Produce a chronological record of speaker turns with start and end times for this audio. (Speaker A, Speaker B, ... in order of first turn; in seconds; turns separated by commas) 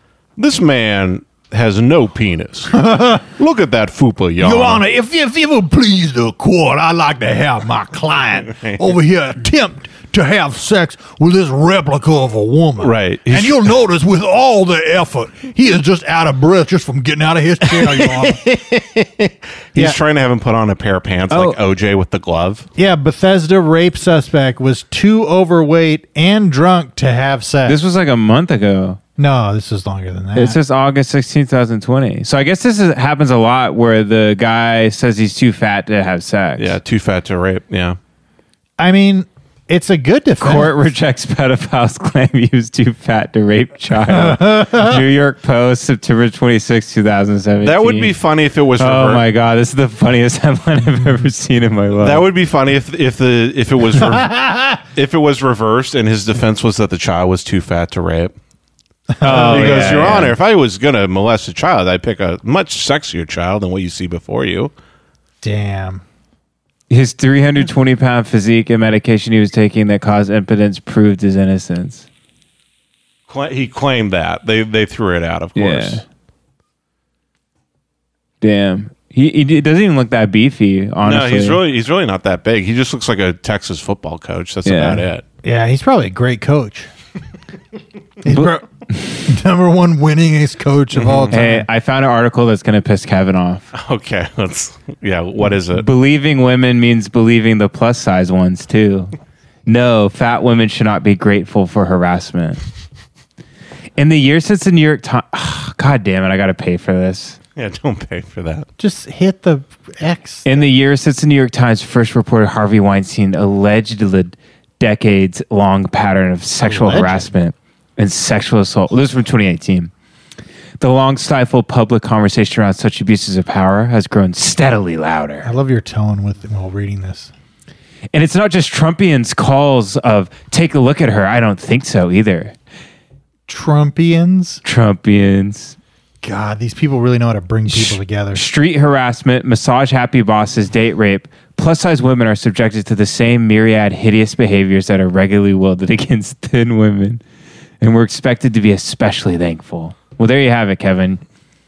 Speaker A: 0.4-4.8, Speaker B: 2.7-3.2, Speaker B: 4.4-18.4, Speaker A: 12.8-13.7, Speaker A: 17.6-22.6, Speaker C: 21.3-21.6, Speaker B: 22.8-27.8, Speaker C: 27.6-29.0, Speaker B: 29.2-30.6, Speaker C: 30.4-36.8, Speaker A: 36.6-38.0, Speaker B: 38.8-40.8, Speaker C: 40.4-48.1, Speaker B: 44.1-44.9, Speaker A: 47.6-49.2, Speaker C: 48.8-52.2, Speaker A: 52.0-58.3, Speaker B: 54.0-54.8, Speaker B: 59.1-60.2, Speaker C: 59.2-60.4, Speaker A: 59.2-64.7, Speaker B: 65.4-66.0, Speaker C: 66.9-72.0, Speaker A: 73.3-76.0, Speaker C: 75.5-76.0, Speaker C: 78.4-81.6, Speaker A: 81.0-85.2, Speaker C: 84.6-85.0, Speaker B: 85.4-86.9, Speaker B: 88.2-91.7, Speaker C: 88.3-88.6, Speaker A: 90.9-91.3, Speaker C: 91.3-93.7, Speaker A: 93.7-95.9, Speaker C: 95.8-99.1, Speaker C: 99.7-102.6, Speaker C: 104.0-107.4, Speaker A: 107.5-108.7, Speaker B: 108.8-110.6, Speaker C: 110.5-119.9, Speaker B: 116.7-117.3, Speaker C: 120.8-125.5, Speaker B: 125.4-127.3, Speaker C: 128.1-132.5, Speaker B: 133.5-134.6, Speaker C: 134.6-135.8, Speaker B: 136.2-138.4, Speaker C: 137.7-147.2, Speaker C: 147.8-151.2